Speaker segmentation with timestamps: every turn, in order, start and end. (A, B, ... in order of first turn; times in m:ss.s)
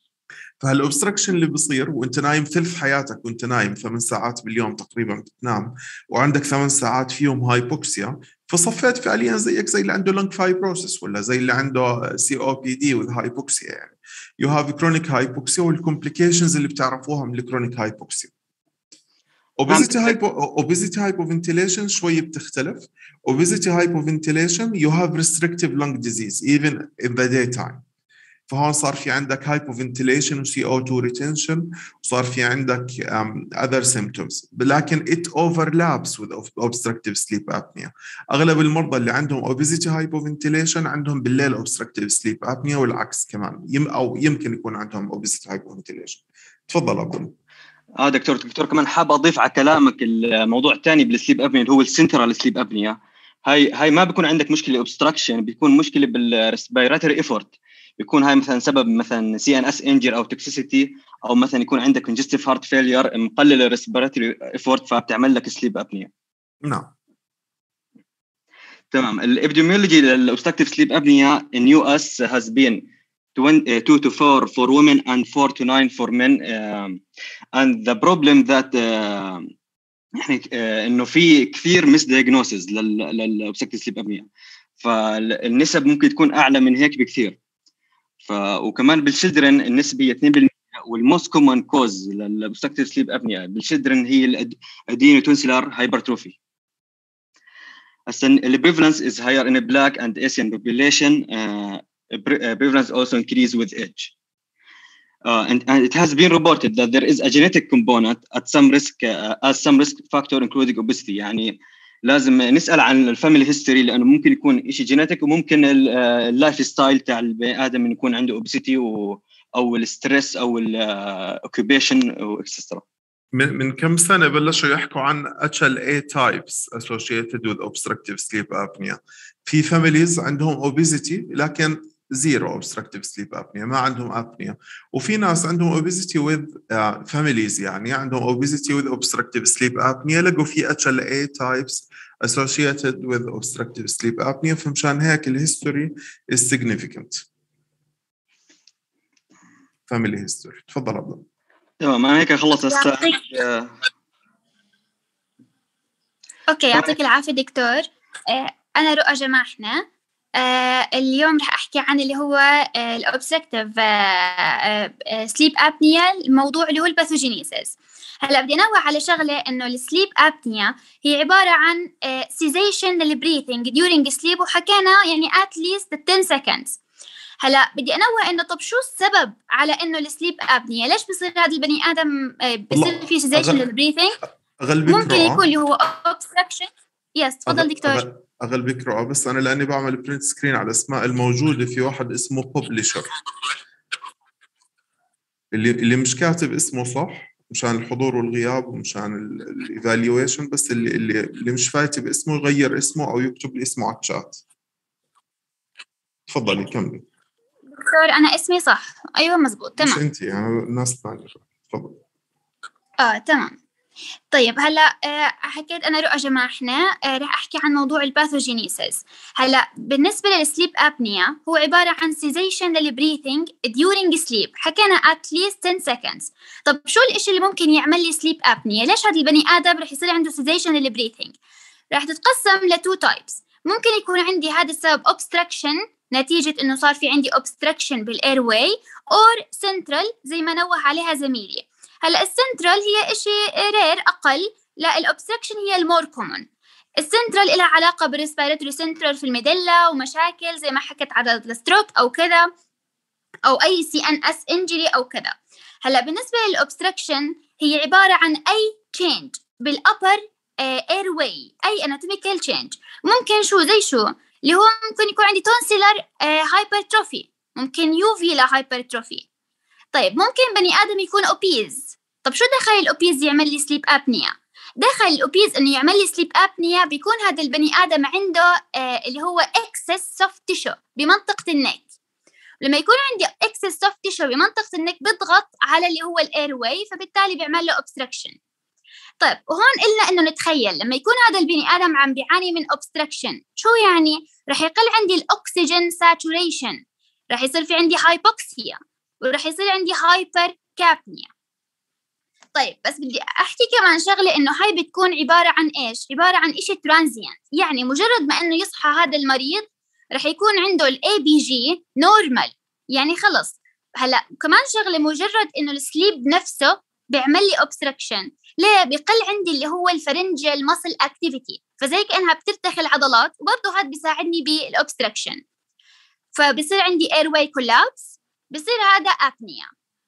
0:00.6-0:18.3 A
0:19.6-0:27.8 A
0:28.5-0:47.3 A
0:48.0-1:06.1 B
1:06.6-1:06.9 A
1:08.9-1:12.8 B
1:13.4-1:17.0 B
1:17.6-1:19.5 B
1:20.2-1:24.3 B
1:24.8-1:27.4 B
1:28.2-1:36.4 B
1:38.1-1:44.1 B
1:45.3-1:51.6 B
1:52.1-2:02.8 B
2:03.3-2:27.2 A
2:29.9-2:31.2 A
2:31.8-2:33.7 B
2:36.5-2:39.8 C
2:40.4-2:56.8 C
2:57.4-3:04.2 C
3:02.7-3:03.6 A
3:04.6-3:05.4 A
3:04.9-3:08.0 C
3:07.5-3:13.1 A
3:15.5-3:24.4 A
3:26.3-3:27.0 A
3:27.7-3:30.0 C
3:29.8-3:32.0 A
3:33.0-3:33.5 C
3:34.3-3:51.3 C
3:51.9-4:06.4 C
4:07.0-4:12.4 C
4:13.5-4:29.2 C
4:29.9-4:41.8 C
4:42.6-4:48.4 C
4:49.2-4:56.8 C
4:57.3-5:01.3 C
5:02.6-5:25.4 C
5:26.3-5:29.7 C